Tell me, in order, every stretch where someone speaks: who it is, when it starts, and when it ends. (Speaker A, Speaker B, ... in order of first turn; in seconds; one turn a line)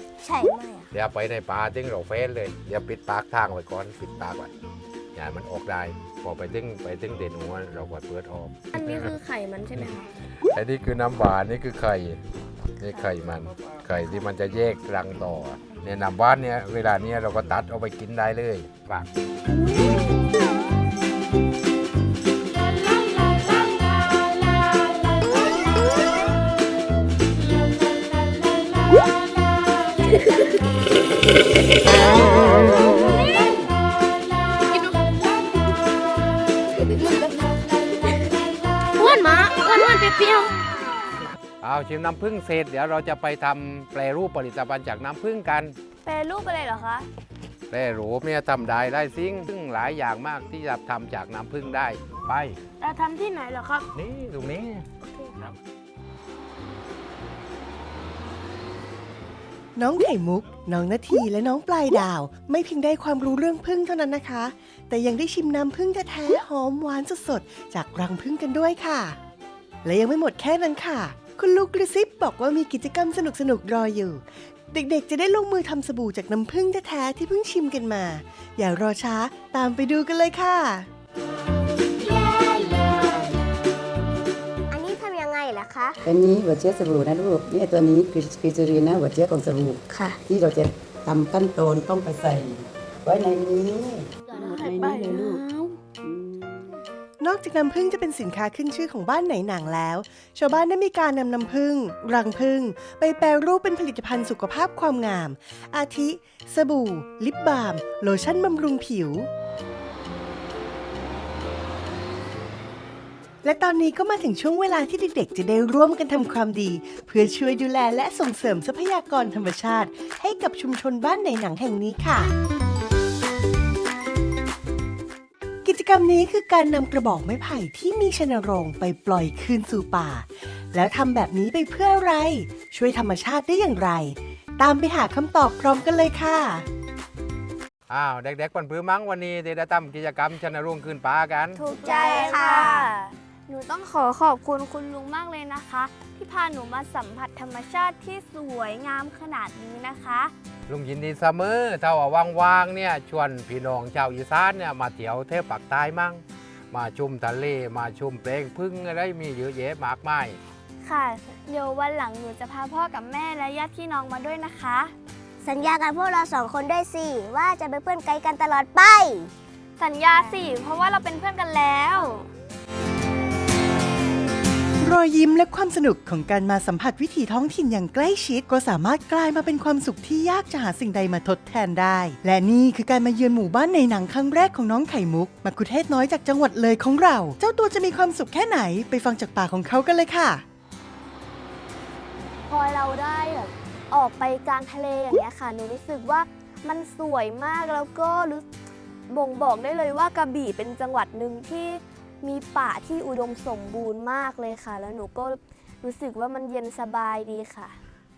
Speaker A: 0.9-4.5
Speaker A: 5.2-9.1
Speaker B: 8.7-10.1
Speaker A: 10.5-12.2
Speaker A: 12.8-19.1
Speaker C: 39.0-40.5
Speaker A: 41.6-45.7
Speaker B: 46.0-47.1
Speaker A: 47.7-52.6
Speaker C: 52.8-53.8
Speaker A: 53.9-54.8
Speaker D: 59.8-69.2
Speaker D: 69.8-80.9
Speaker E: 84.7-85.9
Speaker F: 86.0-96.5
Speaker C: 94.6-95.5
Speaker D: 97.2-109.3
Speaker D: 113.4-122.3
Speaker D: 125.6-136.7
Speaker A: 137.9-141.6
Speaker B: 141.5-150.3
Speaker C: 141.8-142.4
Speaker E: 142.1-142.9
Speaker A: 150.7-160.4
Speaker B: 160.8-164.9
Speaker E: 165.4-169.3
Speaker B: 169.8-172.3
Speaker D: 174.8-190.4
Speaker B: 192.5-198.4
Speaker B: 199.1-207.7